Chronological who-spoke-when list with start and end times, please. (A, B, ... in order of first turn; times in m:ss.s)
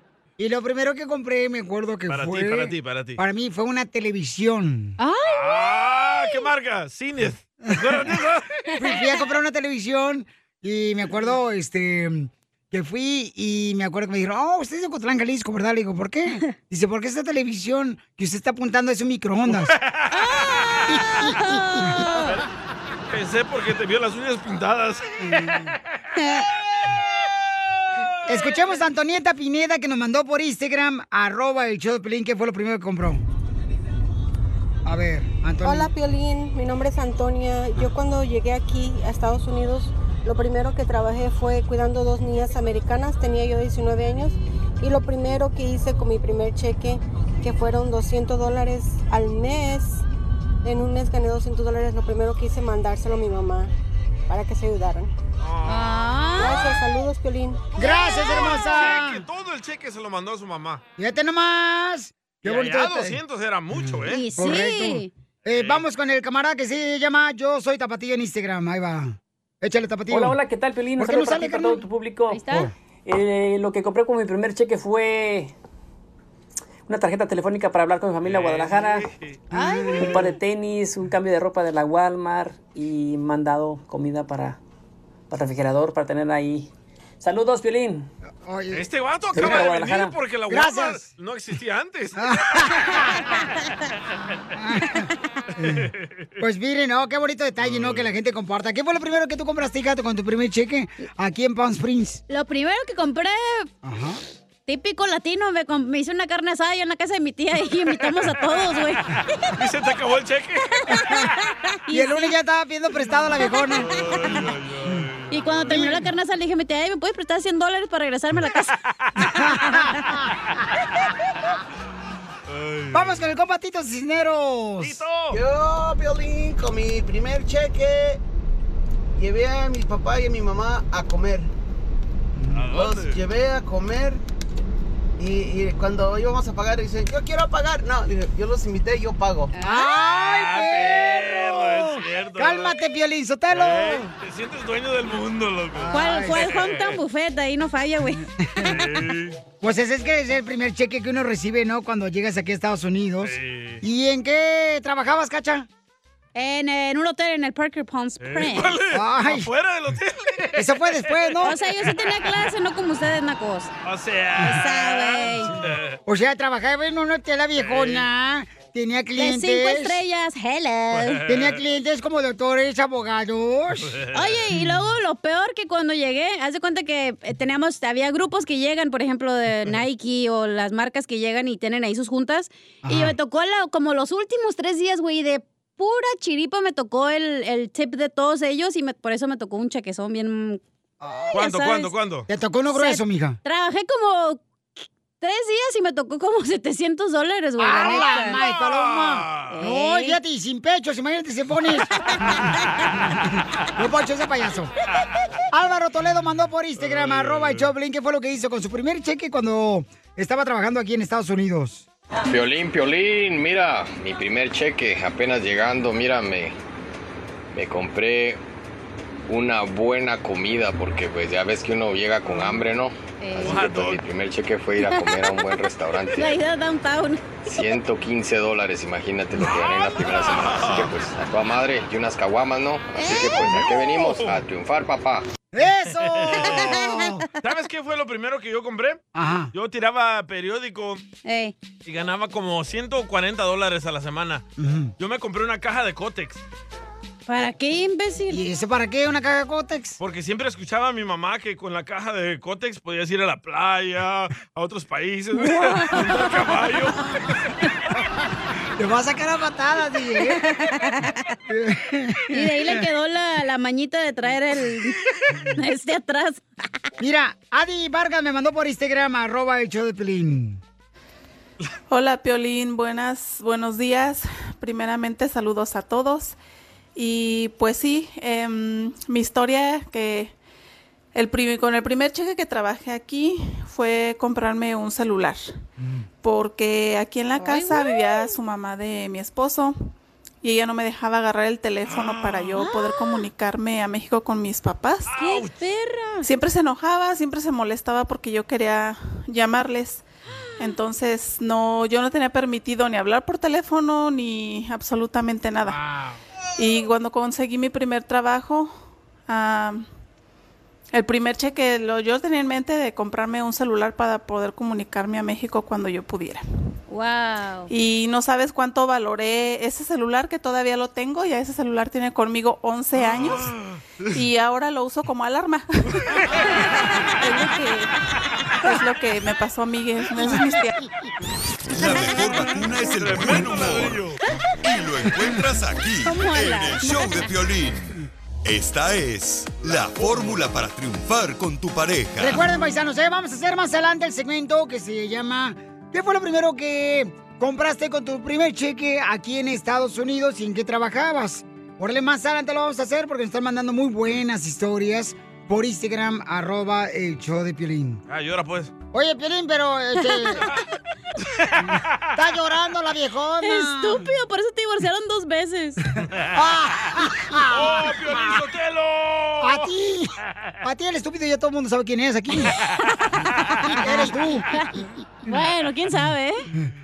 0:00.4-0:05.0 A
0:02.1-0:03.2 B
0:05.0-0:05.6 C
0:05.2-0:08.6 B
0:08.7-0:09.1 C
0:08.8-0:19.7 A
0:19.5-0:21.4 B
0:20.1-0:20.4 C
0:21.1-0:22.4 C
0:22.0-0:22.4 B
0:23.1-0:25.7 B
0:28.3-0:33.2 A
0:34.8-0:35.9 A
0:35.6-0:50.0 D
0:50.6-0:53.7 D
0:54.3-0:55.1 D
0:55.4-0:56.4 B
0:55.6-0:56.6 C
0:56.4-0:57.6 D
0:57.8-0:59.2 A
0:57.8-1:00.8 B
0:58.1-0:58.9 C
1:01.0-1:03.2 A
1:02.4-1:04.2 B
1:03.8-1:10.4 A
1:04.1-1:05.1 C
1:05.5-1:05.8 B
1:10.1-1:12.5 E
1:11.0-1:11.8 A
1:12.3-1:12.7 C
1:13.0-1:15.5 E
1:16.9-1:19.1 E
1:18.2-1:19.4 B
1:19.5-1:20.3 C
1:19.5-1:20.2 A
1:20.0-1:24.6 E
1:25.3-1:28.1 E
1:28.4-1:29.6 A
1:28.7-1:33.1 B
1:29.3-1:30.1 E
1:30.5-1:31.0 A
1:32.2-1:33.2 A
1:34.6-1:35.9 A
1:36.4-1:42.2 A
1:37.6-1:38.1 B
1:42.3-1:43.7 C
1:43.8-1:44.2 A
1:44.7-1:49.5 C
1:48.0-1:48.4 B
1:49.5-1:51.1 B
1:51.9-1:52.3 C
1:51.9-1:54.0 A
1:53.8-1:56.0 B
1:55.3-1:58.7 C
1:59.0-1:59.4 B
1:59.4-1:59.8 A
1:59.7-2:00.0 C
2:02.5-2:03.2 B
2:02.9-2:05.0 A
2:04.8-2:05.4 B
2:05.3-2:08.2 F
2:09.2-2:11.5 F
2:12.5-2:14.2 F
2:12.5-2:13.2 B
2:15.2-2:19.5 F
2:19.5-2:19.9 C
2:19.6-2:24.1 A
2:20.1-2:22.8 B
2:23.5-2:27.0 B
2:25.8-2:26.4 A
2:25.9-2:28.2 C
2:28.4-2:29.0 A
2:28.6-2:29.4 B
2:29.6-2:35.7 A
2:33.2-2:33.8 B
2:36.3-2:38.8 C
2:38.2-2:42.2 B
2:38.9-2:39.5 A
2:40.6-2:41.5 A
2:41.4-2:43.7 C
2:43.8-2:46.0 B
2:44.4-2:45.5 C
2:46.0-2:50.0 A
2:47.6-2:48.0 B
2:49.2-2:51.2 C
2:50.9-2:51.6 B
2:51.3-2:54.0 A
2:54.1-3:10.6 C
3:02.8-3:03.1 A
3:11.0-3:11.4 A
3:11.3-3:12.3 B
3:11.3-3:11.9 C
3:12.3-3:13.4 A
3:12.7-3:14.4 C
3:15.2-3:18.4 C
3:17.6-3:21.9 A
3:17.8-3:19.6 B
3:19.5-3:20.2 C
3:23.7-3:24.7 A
3:25.5-3:31.8 A
3:26.8-3:27.6 B
3:32.2-3:36.5 G
3:37.5-3:38.4 G
3:39.3-3:46.4 G
3:43.2-3:43.6 C
3:43.4-3:44.0 B
3:46.1-3:47.4 C
3:47.4-3:55.2 G
3:49.4-3:50.9 B
3:53.0-3:53.5 C
3:53.0-3:54.4 B
3:55.5-3:57.2 A
3:56.0-3:56.8 B
3:57.4-3:59.0 B
3:59.1-3:59.5 A
3:59.5-4:01.0 B
4:01.2-4:01.5 C
4:01.8-4:04.4 B
4:04.6-4:04.9 A
4:05.0-4:06.4 B
4:07.3-4:08.4 C
4:08.3-4:10.0 A
4:10.0-4:17.4 B
4:15.4-4:16.3 C
4:18.8-4:20.4 A
4:20.4-4:21.2 C
4:21.5-4:22.8 A
4:22.3-4:25.0 C
4:25.5-4:26.4 C
4:27.0-4:30.6 A
4:31.9-4:36.4 H
4:37.0-4:40.3 H
4:41.1-4:45.6 H
4:46.2-4:55.1 H
4:47.4-4:48.3 C
4:51.9-4:52.6 B
4:52.6-4:53.1 C
4:55.0-4:55.6 B
4:55.1-4:56.2 C
4:56.2-5:00.0 H
5:00.6-5:05.8 H
5:06.6-5:09.9 H
5:10.9-5:16.8 H
5:16.9-5:17.7 C
5:17.7-5:23.5 H
5:23.1-5:23.5 B
5:24.1-5:26.0 H
5:27.2-5:27.9 H
5:28.6-5:30.8 H
5:31.7-5:34.1 I
5:33.0-5:34.2 B
5:34.6-5:42.4 I
5:36.0-5:37.2 C
5:39.7-5:40.4 B
5:42.2-5:58.0 A
5:58.1-5:58.7 B
5:58.9-6:00.5 A
6:01.6-6:04.1 A
6:03.4-6:05.8 C
6:06.3-6:08.2 A
6:07.5-6:09.7 B
6:09.4-6:10.1 A
6:10.6-6:12.5 A
6:13.8-6:14.5 A
6:15.2-6:16.4 C